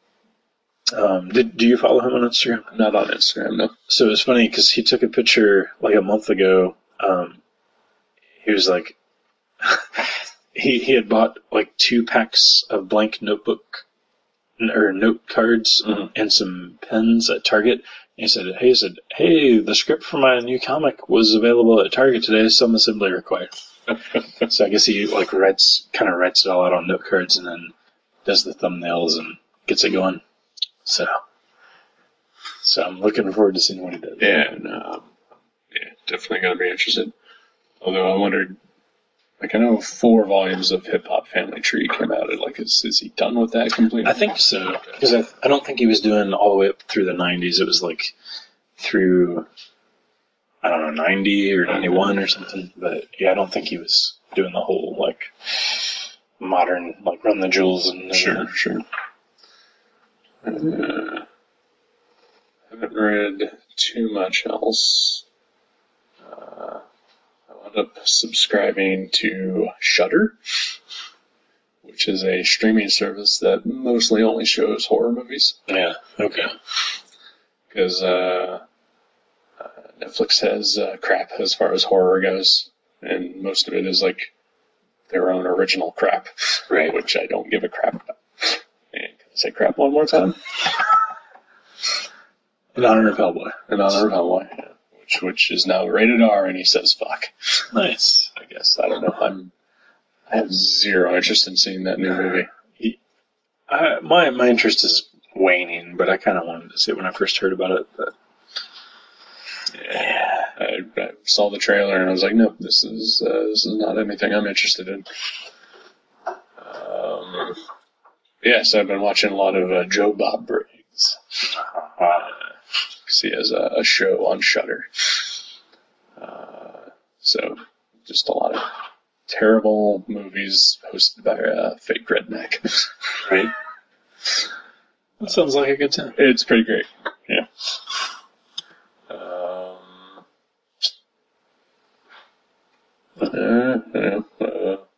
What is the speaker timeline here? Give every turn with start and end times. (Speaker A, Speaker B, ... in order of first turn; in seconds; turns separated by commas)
Speaker A: 0.9-2.7, Speaker B: 2.7-3.7, Speaker A: 3.9-7.4, Speaker A: 8.4-8.9, Speaker A: 9.6-13.8, Speaker A: 14.6-23.5, Speaker A: 24.4-27.7, Speaker A: 28.2-30.2, Speaker A: 30.8-31.1, Speaker A: 32.6-34.4, Speaker B: 34.2-35.2, Speaker B: 35.7-37.1, Speaker B: 37.8-38.6, Speaker B: 39.4-44.3, Speaker A: 44.0-48.1, Speaker A: 48.8-49.5, Speaker A: 50.6-58.5, Speaker B: 51.7-52.1, Speaker B: 58.1-58.8, Speaker B: 60.4-61.2, Speaker B: 62.7-65.2, Speaker B: 66.2-66.8, Speaker B: 67.5-70.3, Speaker B: 71.8-75.6, Speaker A: 75.7-76.5, Speaker B: 77.7-78.6, Speaker B: 79.6-84.3, Speaker B: 85.1-90.5, Speaker A: 86.7-87.0, Speaker A: 92.7-94.0, Speaker B: 93.7-97.7, Speaker A: 97.7-98.3, Speaker B: 98.3-99.5, Speaker B: 100.3-102.5, Speaker A: 103.7-108.1, Speaker B: 109.7-115.1, Speaker A: 109.9-110.2, Speaker B: 116.6-117.6, Speaker B: 118.4-121.5, Speaker A: 121.5-122.3, Speaker B: 123.0-125.2, Speaker B: 126.2-128.7, Speaker B: 129.3-132.9, Speaker A: 133.2-133.5, Speaker A: 135.2-136.2, Speaker B: 136.2-137.7, Speaker B: 139.1-140.2, Speaker B: 143.2-144.8